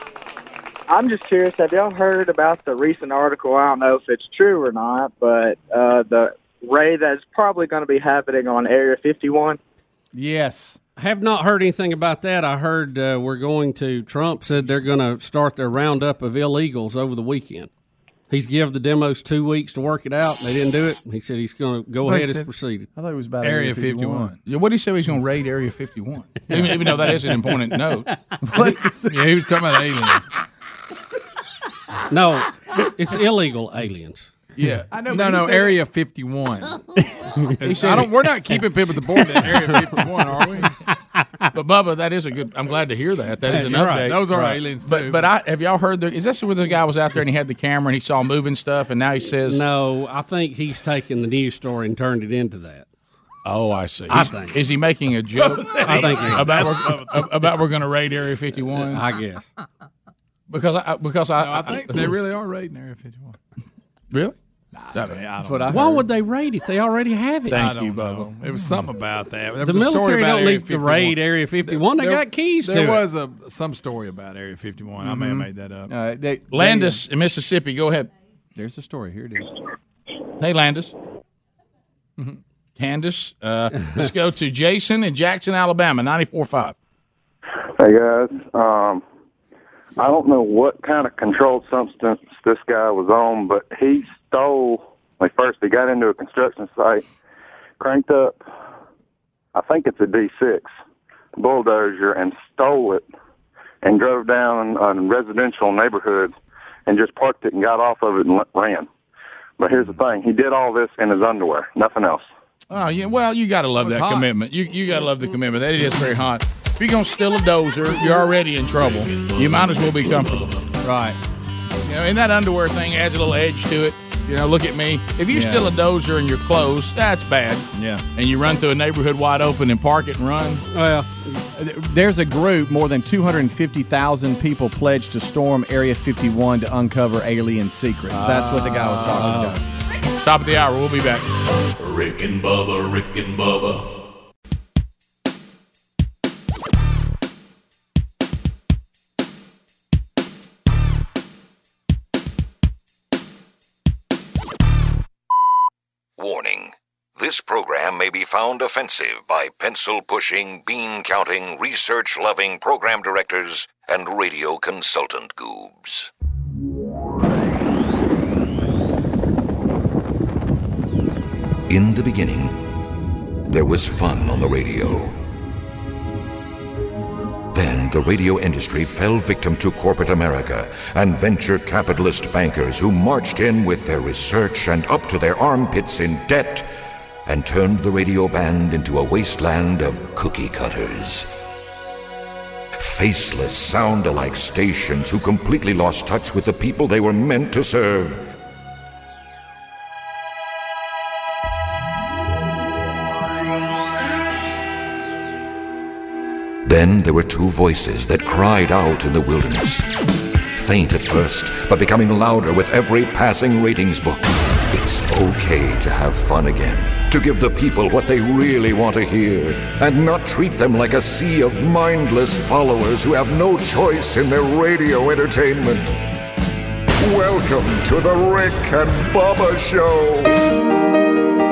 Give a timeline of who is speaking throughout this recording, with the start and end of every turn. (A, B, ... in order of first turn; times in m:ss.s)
0:00.9-0:09.6 A
0:10.1-0:10.8 B
0:11.0-0:17.7 C
0:18.3-0:22.9 C
0:22.1-0:22.4 B
0:23.0-0:24.3 B
0:23.4-0:24.4 D
0:24.4-0:28.1 E
0:28.5-0:29.3 B
0:29.1-0:30.3 D
0:32.1-0:34.3 C
0:34.6-0:34.9 E
0:34.9-0:35.8 B
0:35.0-0:36.7 D
0:37.6-0:40.7 D
0:37.6-0:38.2 E
0:41.5-0:44.3 E
0:43.5-0:44.6 C
0:43.6-0:45.3 D
0:44.8-0:49.6 E
0:49.4-0:52.9 C
0:53.4-0:59.0 E
0:54.1-0:54.6 C
0:55.4-0:57.3 D
0:55.9-0:56.6 C
0:58.8-0:59.5 C
1:00.5-1:02.2 E
1:01.4-1:03.4 D
1:04.1-1:04.4 E
1:04.9-1:05.2 E
1:05.0-1:05.6 D
1:05.4-1:06.1 B
1:05.7-1:07.7 C
1:07.5-1:08.3 E
1:07.5-1:15.9 D
1:09.6-1:13.0 C
1:15.0-1:17.0 B
1:16.5-1:18.1 E
1:18.6-1:19.5 B
1:20.4-1:20.9 E
1:22.8-1:26.8 E
1:23.7-1:24.1 C
1:27.8-1:29.0 F
1:30.0-1:37.0 F
1:37.8-1:38.4 F
1:39.5-1:40.7 F
1:41.4-1:43.0 F
1:43.8-1:46.3 F
1:46.9-1:48.9 F
1:49.6-1:52.2 F
1:52.7-2:00.5 E
1:53.8-1:54.3 D
1:58.8-2:00.7 G
2:00.8-2:01.2 B
2:01.8-2:10.6 E
2:05.3-2:05.7 B
2:07.7-2:08.0 B
2:10.7-2:11.4 C
2:11.5-2:19.6 B
2:18.1-2:19.5 E
2:19.2-2:19.5 C
2:20.2-2:21.3 E
2:21.8-2:23.9 G
2:36.2-2:46.1 H
2:51.7-2:52.6 H
2:53.5-2:55.1 H
2:57.5-3:06.7 H
3:07.2-3:11.3 H
3:12.8-3:18.2 H
3:26.6-3:30.0 H
3:30.5-3:46.0 H
3:47.0-3:50.4 H